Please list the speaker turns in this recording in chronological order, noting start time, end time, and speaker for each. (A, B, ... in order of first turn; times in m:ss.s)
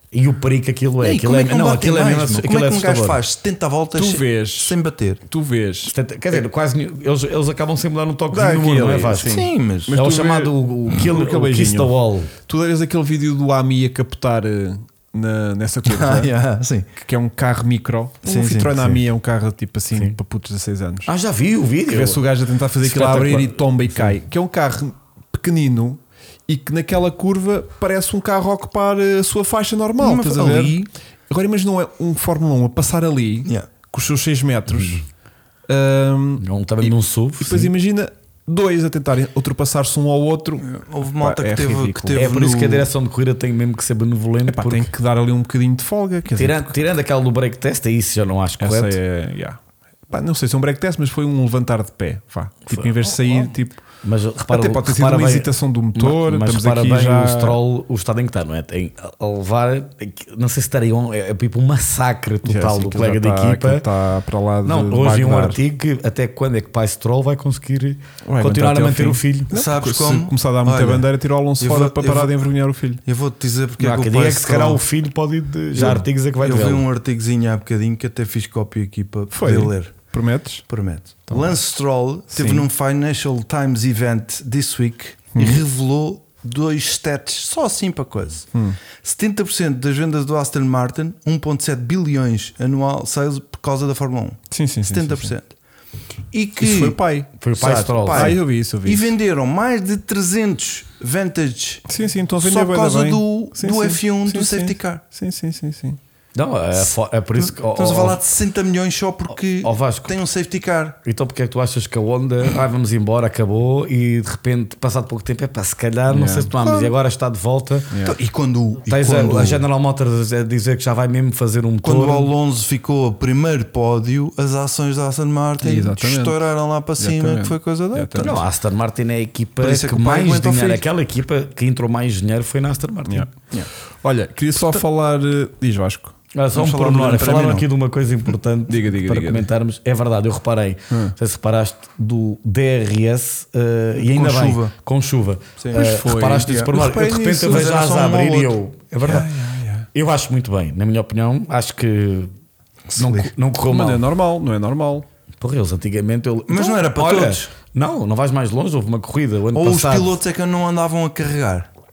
0:00.1-0:03.2 A
0:01.0-0:05.2 B
0:04.0-0:04.8 C
0:05.3-0:05.9 C
0:05.9-0:12.3 A
0:08.3-0:16.3 C
0:09.2-0:10.0 B
0:15.8-0:16.9 B
0:17.0-0:21.1 C
0:18.2-0:19.0 B
0:21.0-0:22.2 A
0:21.9-0:35.0 C
0:22.8-0:24.1 A
0:30.0-0:30.9 B
0:33.4-0:33.7 B
0:35.7-0:42.2 C
0:36.4-0:37.7 A
0:40.6-0:42.9 B
0:42.1-0:44.9 A
0:44.5-0:46.7 C
0:46.3-0:49.0 A
0:48.6-0:53.8 C
0:52.7-0:53.5 A
0:54.0-1:03.8 A
0:54.5-0:57.6 C
1:02.4-1:05.6 C
1:04.6-1:09.5 A
1:08.2-1:13.0 C
1:09.5-1:11.1 B
1:11.6-1:12.4 B
1:13.0-1:14.8 B
1:13.8-1:16.8 A
1:15.8-1:20.0 B
1:19.3-1:20.6 C
1:20.7-1:28.5 B
1:21.3-1:21.6 C
1:22.3-1:22.6 C
1:25.3-1:25.6 C
1:29.0-1:35.5 B
1:34.5-1:35.3 C
1:36.3-1:37.0 B
1:36.6-1:39.1 C
1:37.4-1:38.4 A
1:37.6-1:41.8 B
1:41.9-1:46.0 C
1:42.4-1:45.0 B
1:46.3-1:48.2 A
1:47.5-1:51.0 B
1:49.6-1:50.2 A
1:51.0-1:57.9 A
1:56.1-1:56.6 C
1:57.9-1:58.2 C
1:58.0-1:59.6 B
1:58.8-2:02.3 A
2:01.8-2:08.4 B
2:05.6-2:06.4 C
2:07.0-2:08.4 C
2:08.2-2:13.3 A
2:09.6-2:10.8 B
2:13.1-2:13.4 C
2:14.0-2:16.2 C
2:16.3-2:29.3 A
2:16.5-2:17.6 B
2:16.8-2:17.6 C
2:18.7-2:19.5 C
2:24.0-2:24.7 B
2:25.6-2:28.5 B
2:25.7-2:27.6 C
2:29.0-2:29.9 C
2:29.9-2:32.3 A
2:32.9-2:33.3 B
2:32.9-2:34.0 A
2:33.7-2:35.0 C
2:35.4-2:40.1 A
2:36.5-2:37.5 B
2:39.5-2:41.7 B